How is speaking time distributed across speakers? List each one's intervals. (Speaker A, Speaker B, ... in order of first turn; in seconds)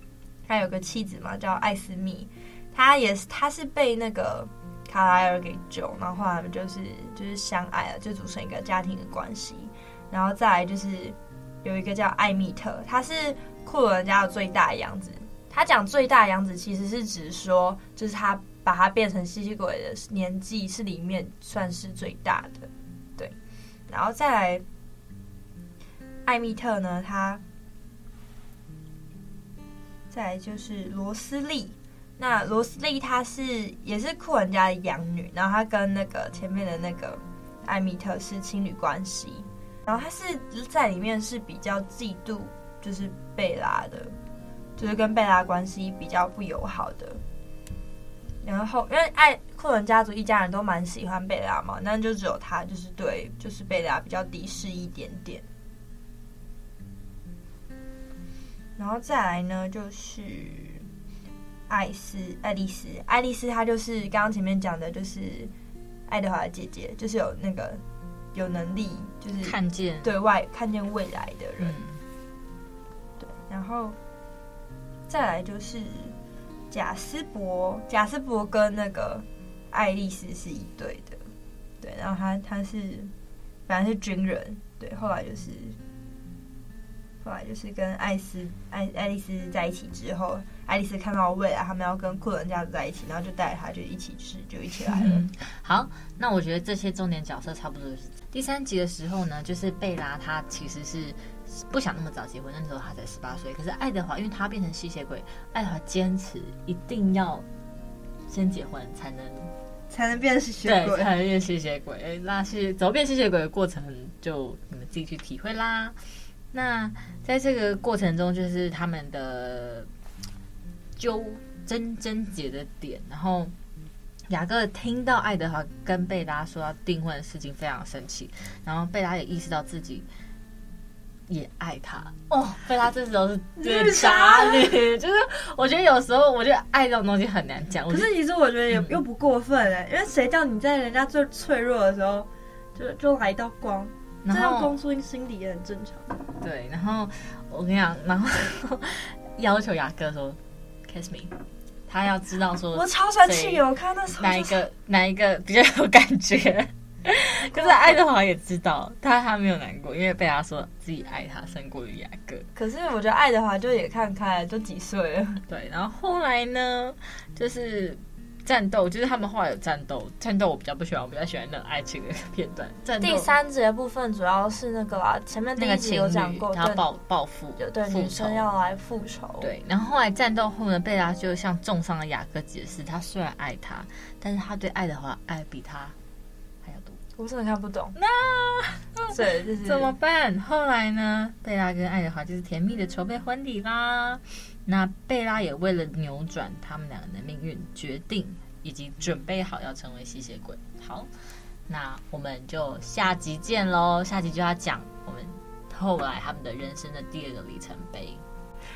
Speaker A: 0.5-23.4, 23.9-24.6, 26.3-27.4, 30.1-44.1, 44.8-47.2, 48.4-55.4, 58.8-60.9, 61.7-65.5, 66.1-67.8, 68.3-71.8, 73.2-74.0, 75.1-76.2, 76.7-81.2, 81.8-83.1, 83.7-85.8, 87.2-95.2, 109.9-111.1, 133.6-134.7, 137.9-146.2, 152.7-154.6, 157.4-158.0, 162.6-165.4, 173.0-176.8, 177.6-179.5, 187.2-188.0, 189.1-189.9
Speaker B: 69.4-70.1, 71.6-72.0, 94.9-107.5, 108.3-109.5, 110.7-116.0, 116.5-119.9, 121.0-123.5, 124.3-130.1, 131.3-138.1, 138.7-139.0, 144.2-144.8, 146.4-153.6, 154.2-162.5, 165.5-173.3, 175.6-178.5, 179.4-185.9, 186.6-187.0, 188.0-201.1, 201.7-208.2